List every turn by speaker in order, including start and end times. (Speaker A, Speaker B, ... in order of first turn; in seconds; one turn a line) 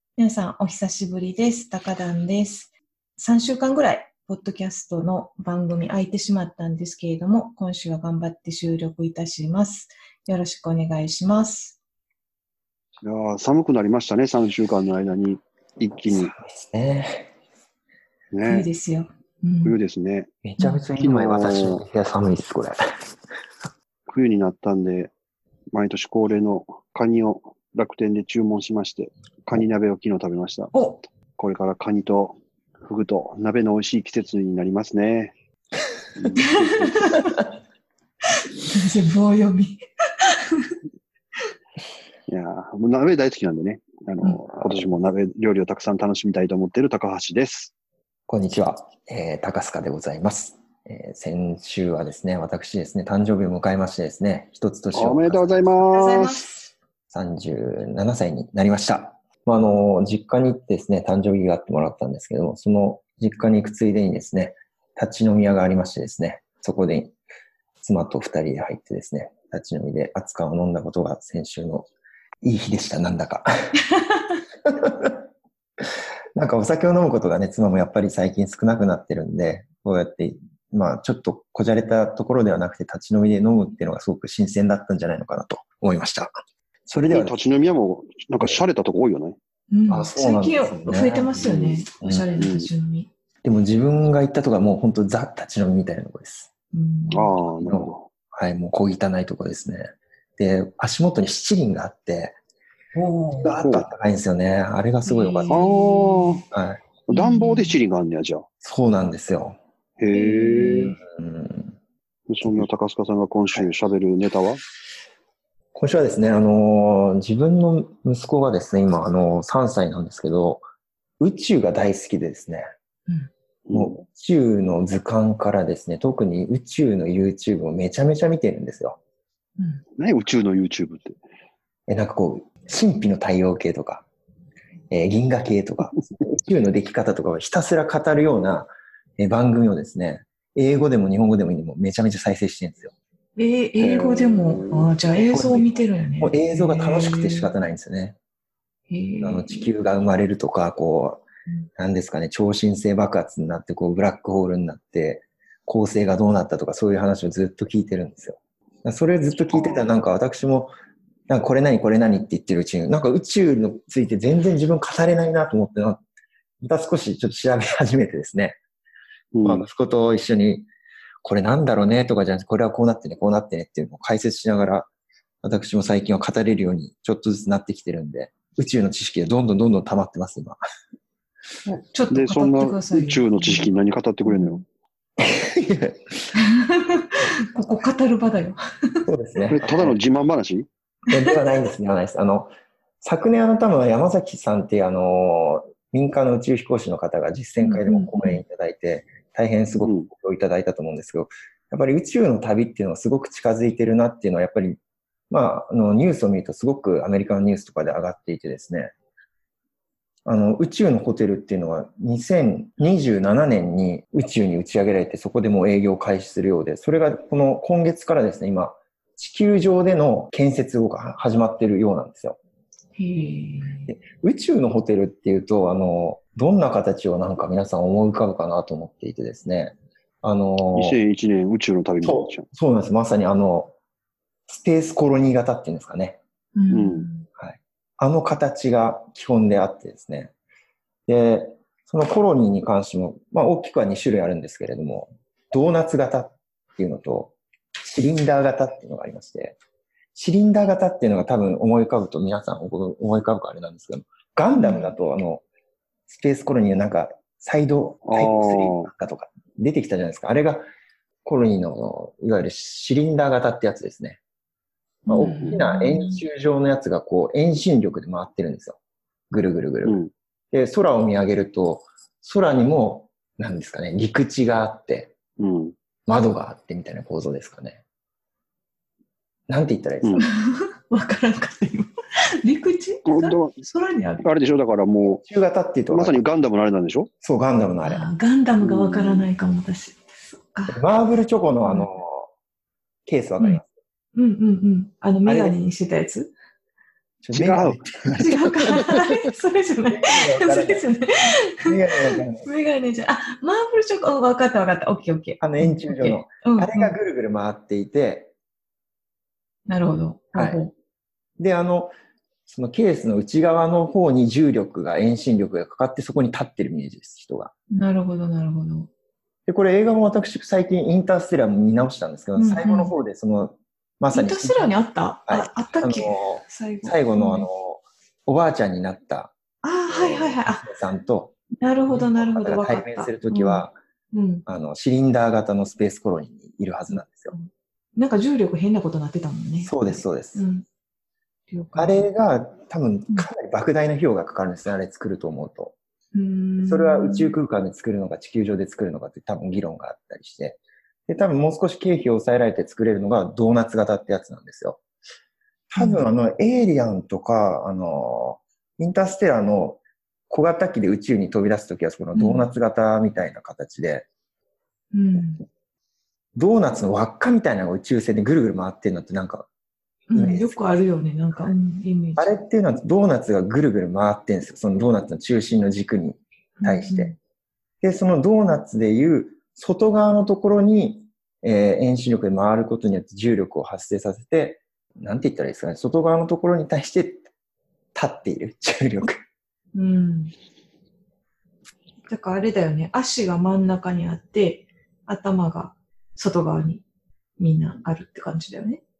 Speaker A: 0.2-11.8
Speaker B: 13.0-16.3
Speaker C: 16.1-17.3
Speaker B: 18.3-18.7
Speaker A: 18.5-19.8
Speaker B: 19.6-20.3
Speaker C: 20.4-22.8
Speaker A: 20.6-20.9
Speaker B: 21.0-21.8
Speaker B: 24.1-25.1
Speaker B: 25.7-30.7
Speaker A: 30.7-31.0
Speaker B: 31.4-35.3
Speaker B: 36.2-37.2
Speaker A: 36.4-37.4
Speaker A: 38.6-40.7
Speaker B: 42.3-47.7
Speaker C: 48.3-55.8
Speaker B: 54.9-56.5
Speaker A: 55.9-56.7
Speaker C: 57.1-67.2
Speaker C: 67.8-71.9
Speaker C: 72.4-73.5
Speaker C: 74.7-75.2
Speaker C: 75.8-86.3
Speaker C: 86.9-87.4
Speaker B: 87.1-89.4
Speaker A: 89.7-93.1
Speaker C: 89.9-91.3
Speaker B: 91.3-91.8
Speaker C: 92.0-92.3
Speaker B: 92.4-92.7
Speaker C: 93.4-96.5
Speaker A: 96.7-97.4
Speaker B: 97.1-98.1
Speaker C: 97.6-102.4
Speaker A: 103.0-103.5
Speaker C: 103.4-105.7
Speaker B: 103.6-103.9
Speaker A: 105.0-106.4
Speaker B: 105.5-106.4
Speaker C: 106.5-106.8
Speaker B: 107.1-108.5
Speaker A: 107.1-107.8
Speaker C: 108.6-109.6
Speaker B: 110.0-111.0
Speaker A: 110.1-111.0
Speaker C: 111.1-111.8
Speaker B: 112.3-114.6
Speaker C: 112.4-112.7
Speaker C: 115.8-120.6
Speaker C: 121.2-122.7
Speaker B: 123.7-124.0
Speaker C: 123.7-129.0
Speaker B: 130.0-131.2
Speaker C: 131.9-134.1
Speaker C: 134.9-142.9
Speaker A: 143.4-147.5
Speaker B: 143.8-145.0
Speaker C: 145.3-148.2
Speaker A: 148.9-149.7
Speaker C: 149.2-151.2
Speaker C: 151.8-160.7
Speaker C: 161.3-166.0
Speaker C: 166.6-168.6
Speaker B: 169.3-169.7
Speaker C: 169.4-170.7
Speaker C: 171.2-174.9
Speaker C: 175.4-180.6
Speaker A: 181.7-183.7
Speaker B: 182.1-184.6
Speaker A: 184.2-184.6
Speaker C: 185.2-186.2
Speaker A: 186.3-189.1
Speaker C: 189.1-190.0
Speaker B: 189.5-190.7
Speaker C: 191.1-192.5
Speaker C: 193.0-208.9
Speaker A: 197.6-198.4
Speaker B: 199.8-200.1
Speaker C: 210.3-222.4
Speaker A: 223.0-223.9
Speaker C: 223.9-231.0
Speaker B: 230.7-232.5
Speaker C: 232.0-233.7
Speaker C: 234.5-236.2
Speaker A: 236.6-237.3
Speaker B: 236.7-237.1
Speaker C: 237.4-240.3
Speaker C: 241.1-249.6
Speaker C: 250.1-255.4
Speaker A: 254.6-255.0
Speaker C: 256.1-260.6
Speaker B: 258.1-258.9
Speaker C: 261.2-264.2
Speaker A: 265.1-266.2
Speaker C: 265.1-268.8
Speaker C: 269.3-270.0
Speaker B: 269.9-270.1
Speaker C: 270.5-275.1
Speaker B: 275.4-275.8
Speaker C: 276.1-277.8
Speaker C: 279.5-280.3
Speaker A: 280.2-281.9
Speaker A: 282.4-284.2
Speaker B: 283.1-283.6
Speaker B: 284.2-285.2
Speaker C: 285.1-286.2
Speaker B: 285.9-287.1
Speaker C: 287.2-288.1
Speaker A: 287.8-290.8
Speaker B: 288.6-289.3
Speaker C: 290.7-292.3
Speaker A: 291.6-291.9
Speaker C: 293.1-293.7
Speaker A: 294.1-296.3
Speaker C: 295.2-295.6
Speaker C: 297.2-298.5
Speaker B: 297.3-297.8
Speaker A: 298.1-306.9
Speaker C: 299.9-300.9
Speaker C: 301.6-302.5
Speaker C: 305.4-308.3
Speaker A: 309.7-310.7
Speaker C: 310.4-310.6
Speaker C: 311.4-311.9
Speaker C: 312.5-317.5
Speaker A: 317.7-318.9
Speaker C: 319.5-324.8
Speaker A: 322.4-322.9
Speaker A: 324.1-327.5
Speaker C: 325.3-329.3
Speaker A: 329.6-330.7
Speaker C: 329.9-331.4
Speaker A: 331.6-334.4
Speaker C: 331.9-333.8
Speaker C: 334.5-337.3
Speaker A: 336.9-340.6
Speaker C: 339.6-340.5
Speaker A: 341.5-342.1
Speaker C: 341.8-345.8
Speaker A: 346.1-347.4
Speaker C: 346.6-354.8
Speaker C: 355.7-364.1
Speaker A: 355.8-356.1
Speaker A: 362.1-362.5
Speaker A: 364.9-365.4
Speaker C: 366.4-369.5
Speaker A: 370.1-372.3
Speaker C: 370.1-370.6
Speaker C: 372.2-377.1
Speaker A: 376.6-377.2
Speaker C: 377.8-387.3
Speaker C: 387.9-389.2
Speaker A: 389.8-390.3
Speaker A: 392.1-396.8
Speaker A: 397.4-398.8